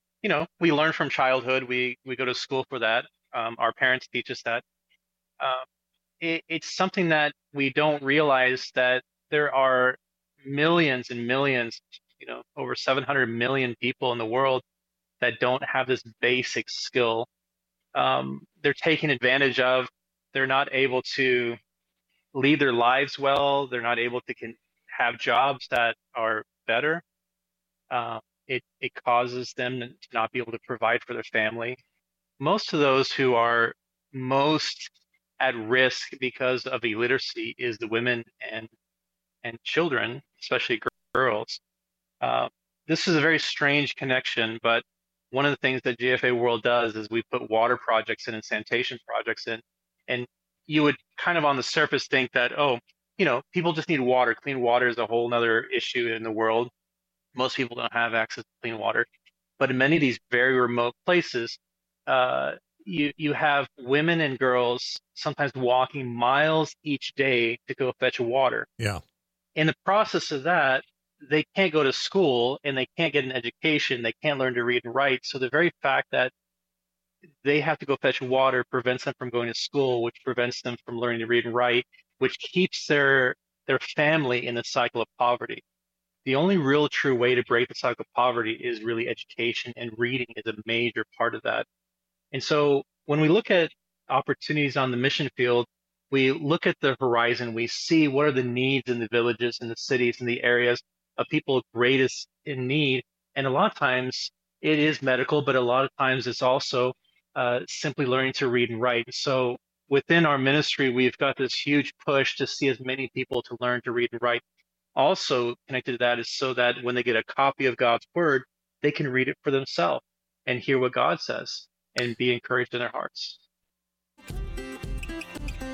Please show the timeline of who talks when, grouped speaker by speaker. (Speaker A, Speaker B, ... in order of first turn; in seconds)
Speaker A: 0.2-4.6, 6.2-14.6, 15.2-17.3, 17.9-21.6, 22.3-27.0, 27.9-31.8, 32.4-34.9, 35.4-38.7, 39.4-41.6, 42.2-56.7, 57.3-59.0, 59.6-68.7, 69.5-76.3, 77.4-85.6, 86.2-91.6, 92.3-114.4, 114.9-123.4